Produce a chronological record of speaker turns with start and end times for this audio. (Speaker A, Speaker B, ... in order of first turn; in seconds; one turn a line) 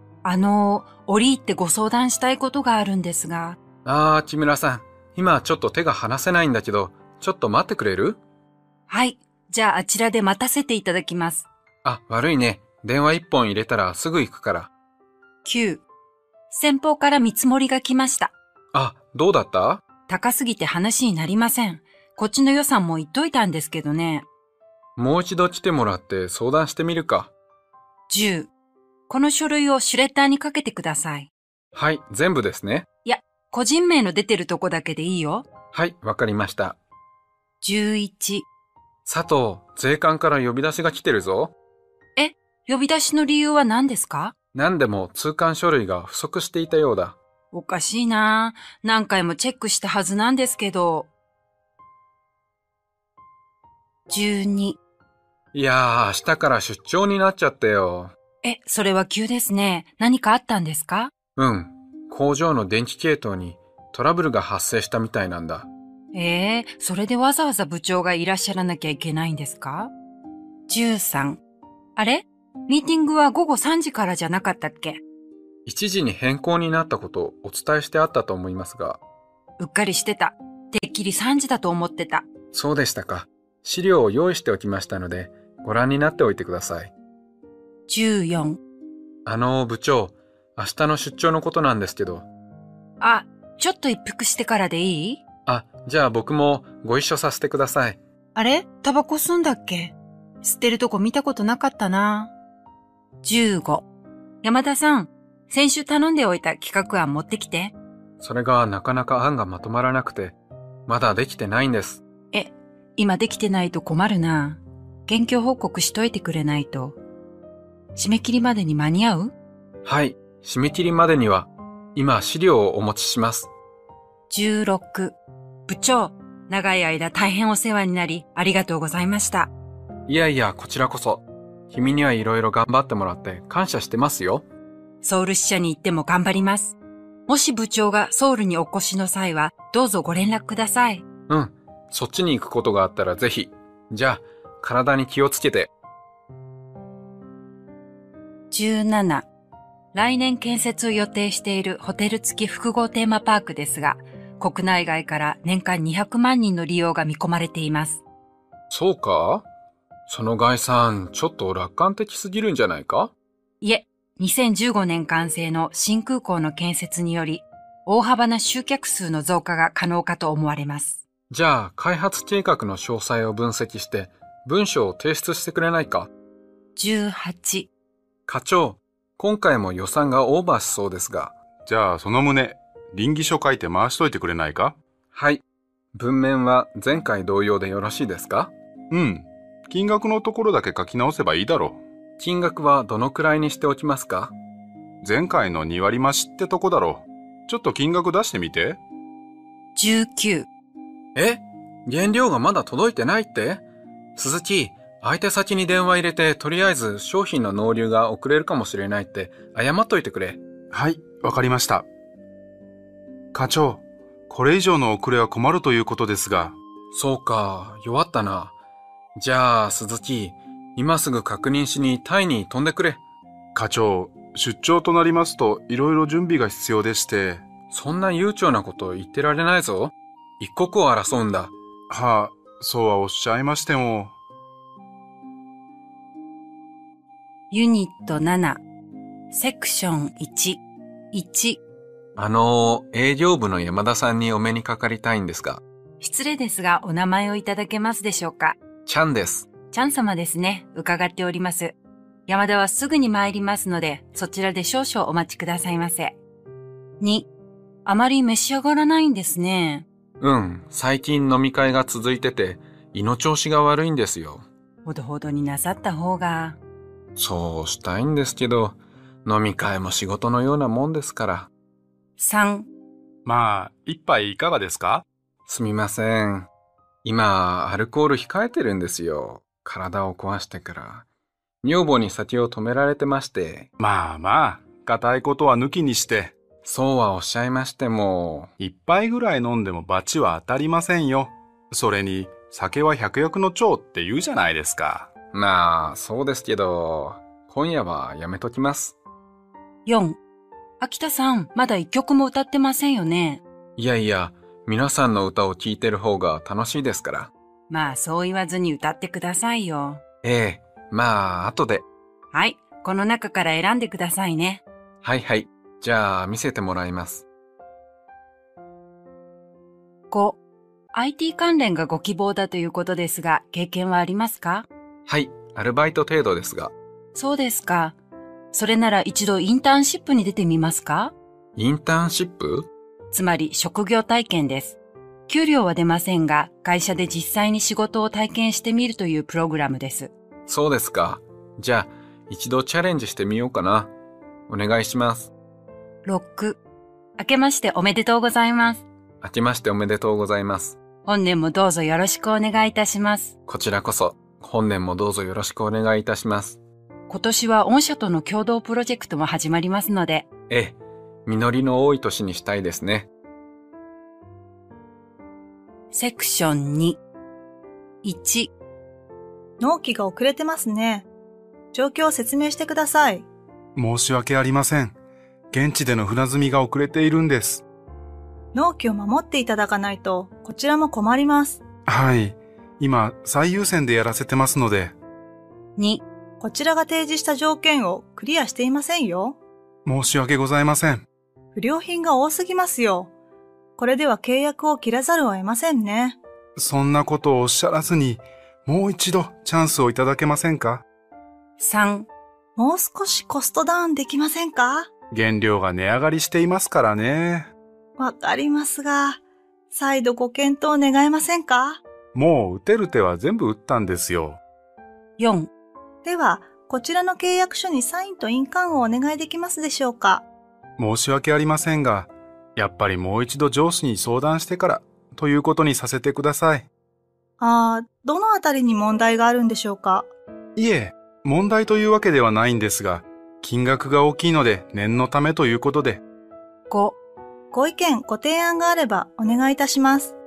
Speaker A: 0.2-3.6
Speaker B: 3.9-8.2
Speaker A: 8.9-11.5
Speaker B: 11.8-14.7
Speaker A: 15.4-15.8
Speaker A: 16.5-18.3
Speaker B: 18.7-19.8
Speaker A: 20.1-24.3
Speaker B: 25.0-27.3
Speaker A: 28.1-28.5
Speaker A: 29.1-31.3
Speaker B: 31.7-32.9
Speaker A: 33.0-35.5
Speaker B: 35.7-36.8
Speaker A: 37.6-38.5
Speaker B: 39.1-41.5
Speaker A: 42.2-44.4
Speaker B: 44.5-47.2
Speaker A: 47.5-51.1
Speaker A: 54.1-54.8
Speaker B: 55.5-58.1
Speaker A: 58.4-61.1
Speaker B: 61.4-65.7
Speaker A: 66.1-69.9
Speaker A: 70.7-71.4
Speaker A: 72.0-75.0
Speaker B: 75.7-79.0
Speaker A: 79.6-82.2
Speaker B: 82.5-86.9
Speaker A: 87.9-88.6
Speaker B: 89.2-92.3
Speaker A: 93.0-95.2
Speaker B: 95.5-98.0
Speaker A: 98.3-102.3
Speaker A: 103.2-103.8
Speaker A: 104.4-107.7
Speaker B: 108.2-112.0
Speaker A: 112.3-117.0
Speaker A: 118.0-119.3
Speaker B: 119.8-123.5
Speaker A: 124.3-125.2
Speaker A: 125.7-129.5
Speaker B: 130.1-134.4
Speaker A: 135.0-141.0
Speaker B: 141.3-145.7
Speaker A: 148.5-149.3
Speaker A: 149.9-158.0
Speaker B: 158.7-159.4
Speaker B: 160.1-163.1
Speaker A: 163.6-171.0
Speaker B: 171.3-176.1
Speaker A: 176.8-177.7
Speaker B: 178.3-181.3
Speaker C: 181.7-184.8
Speaker B: 185.1-185.4
Speaker B: 185.9-188.5
Speaker C: 188.9-191.8
Speaker B: 192.2-194.3
Speaker C: 195.0-198.8
Speaker A: 199.8-200.5
Speaker B: 201.2-203.6
Speaker B: 204.2-210.4
Speaker C: 210.7-211.9
Speaker C: 213.3-216.6
Speaker B: 216.9-218.5
Speaker B: 219.2-223.0
Speaker C: 223.6-227.5
Speaker B: 227.7-231.5
Speaker C: 231.9-234.1
Speaker A: 237.5-238.6
Speaker A: 239.3-240.6
Speaker A: 241.1-241.6
Speaker B: 242.2-245.6
Speaker A: 246.0-248.6
Speaker B: 248.9-249.5
Speaker A: 249.7-251.8
Speaker A: 252.3-256.2
Speaker A: 257.0-257.3
Speaker A: 257.9-259.9
Speaker B: 260.2-264.4
Speaker A: 264.9-266.6
Speaker B: 267.2-271.5
Speaker A: 272.2-272.7
Speaker C: 273.2-275.1
Speaker B: 275.5-276.5
Speaker B: 277.0-281.1
Speaker B: 281.6-283.7
Speaker C: 283.8-286.4
Speaker B: 286.6-288.5
Speaker C: 288.6-295.1
Speaker B: 295.3-299.0
Speaker A: 299.9-300.2
Speaker A: 300.8-303.4
Speaker B: 303.8-307.3
Speaker A: 307.7-310.0
Speaker B: 310.2-311.9
Speaker A: 312.3-314.6
Speaker B: 315.0-317.3
Speaker A: 320.1-320.4
Speaker A: 320.9-324.7
Speaker B: 325.1-326.7
Speaker A: 327.1-328.0
Speaker A: 328.5-331.1
Speaker B: 331.6-332.7
Speaker A: 333.1-340.1
Speaker B: 340.5-343.9
Speaker B: 344.5-345.3
Speaker A: 346.0-346.6
Speaker A: 347.2-348.9
Speaker B: 349.2-350.8
Speaker A: 351.1-353.3
Speaker B: 353.5-356.6
Speaker A: 357.1-360.3
Speaker B: 360.5-363.1
Speaker A: 365.9-367.0
Speaker A: 368.0-368.5
Speaker D: 369.6-371.1
Speaker D: 371.7-373.3
Speaker C: 373.8-374.9
Speaker C: 375.5-377.6
Speaker D: 378.5-381.6
Speaker C: 381.9-384.9
Speaker A: 385.8-386.0
Speaker D: 386.4-389.4
Speaker C: 389.9-391.1
Speaker D: 391.6-393.1
Speaker D: 393.8-396.2
Speaker C: 396.6-400.8
Speaker A: 401.6-402.1
Speaker D: 402.6-404.9
Speaker C: 405.1-407.5
Speaker D: 408.0-409.2
Speaker D: 409.7-411.8
Speaker C: 412.1-414.4
Speaker A: 415.2-415.5
Speaker D: 416.0-420.3
Speaker C: 420.8-426.7
Speaker D: 427.4-430.1
Speaker C: 430.6-436.0
Speaker A: 436.7-437.0
Speaker D: 437.5-440.1